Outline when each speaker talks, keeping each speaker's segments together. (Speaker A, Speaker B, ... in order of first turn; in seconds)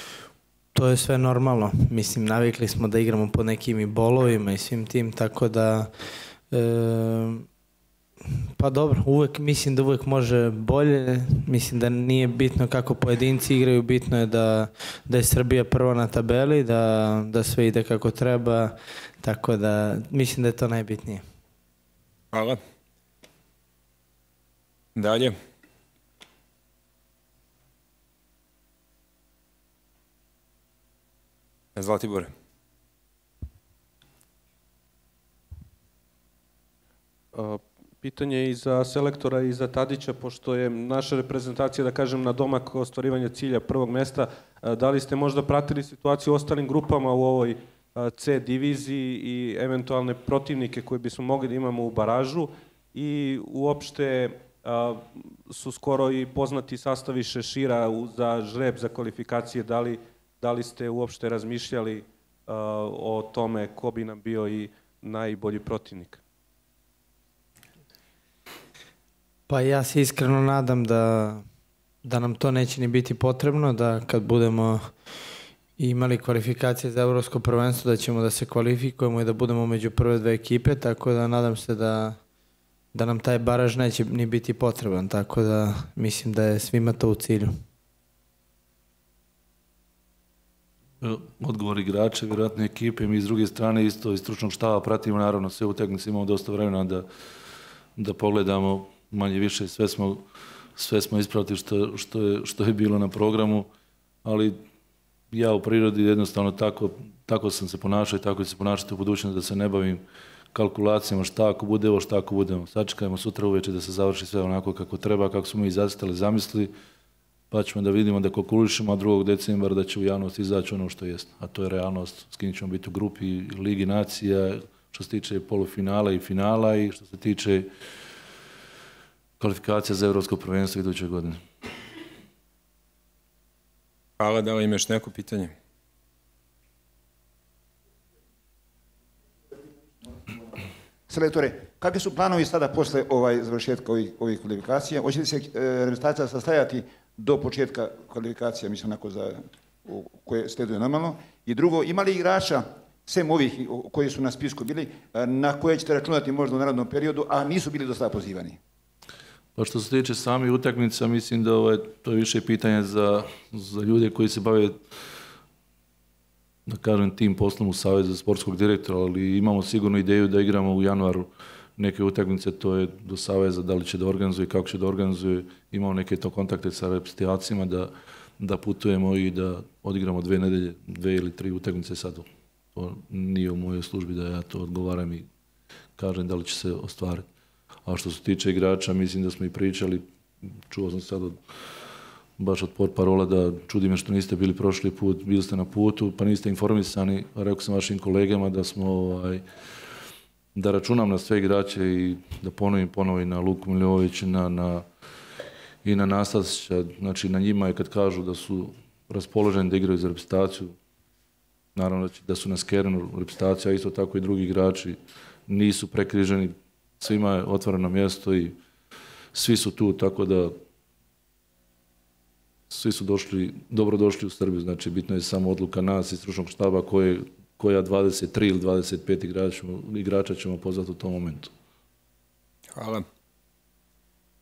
Speaker A: 0.8-5.9, 6.5-7.5, 8.3-21.2, 69.5-71.4, 72.0-74.8, 75.8-82.2, 82.9-87.5
Speaker B: 22.3-22.6, 24.9-25.4, 31.8-32.3, 134.2-135.5, 232.7-233.1
Speaker C: 37.3-66.2
Speaker D: 91.0-97.1, 98.0-100.2, 100.8-103.7, 104.2-104.6, 105.3-110.0, 110.5-116.7, 117.5-127.7, 129.4-131.4, 159.6-164.8, 166.7-185.3, 186.0-187.2, 187.8-190.0, 190.7-191.4, 192.4-199.4, 200.6-204.8, 205.8-210.8, 211.8-218.6, 219.3-220.6, 222.7-231.5
Speaker E: 141.1-158.6